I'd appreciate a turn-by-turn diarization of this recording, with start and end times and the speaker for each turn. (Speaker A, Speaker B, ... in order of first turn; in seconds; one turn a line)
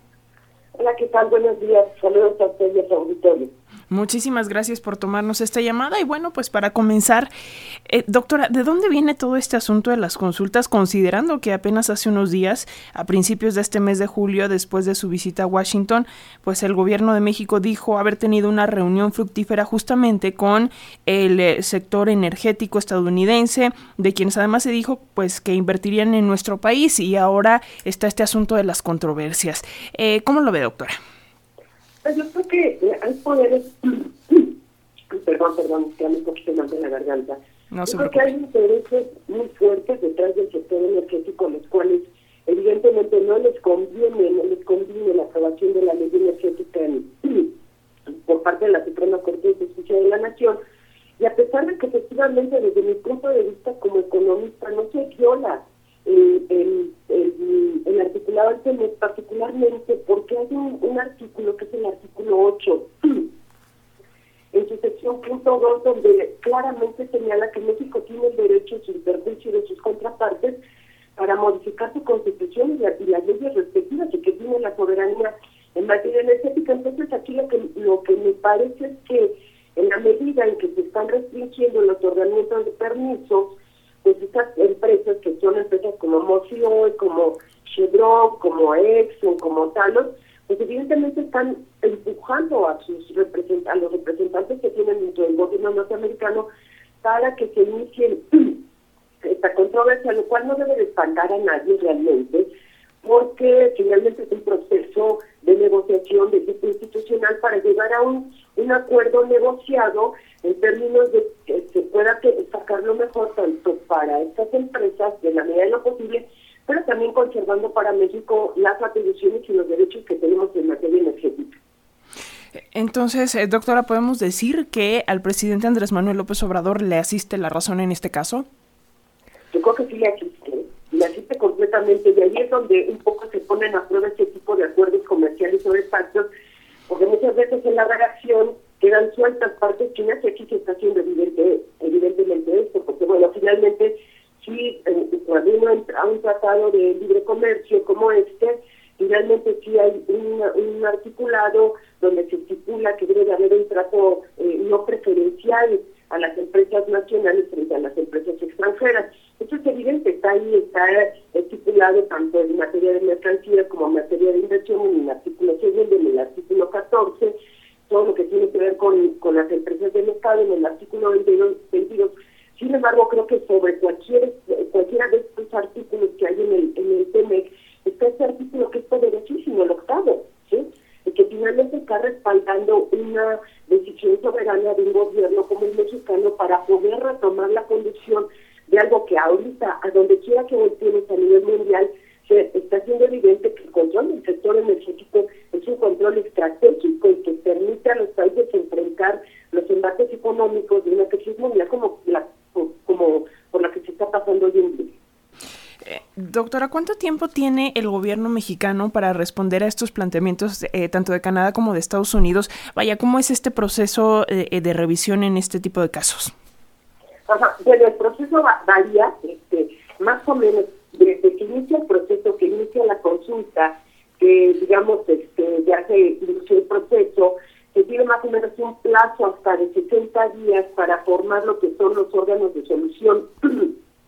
Speaker A: 0.8-3.5
Speaker B: 3.9-7.3
Speaker B: 7.9-30.9
Speaker A: 32.0-34.5
Speaker A: 35.1-47.5
Speaker B: 37.7-38.3
Speaker A: 48.1-50.6
Speaker A: 51.2-63.3
Speaker A: 64.5-70.6
Speaker A: 71.2-96.5
Speaker A: 97.0-98.6
Speaker A: 99.2-102.5
Speaker A: 103.0-121.6
Speaker B: 122.6-128.5
Speaker A: 129.5-136.3
Speaker A: 136.9-167.4
Speaker A: 167.9-204.9
Speaker B: 205.8-216.3
Speaker A: 217.3-233.7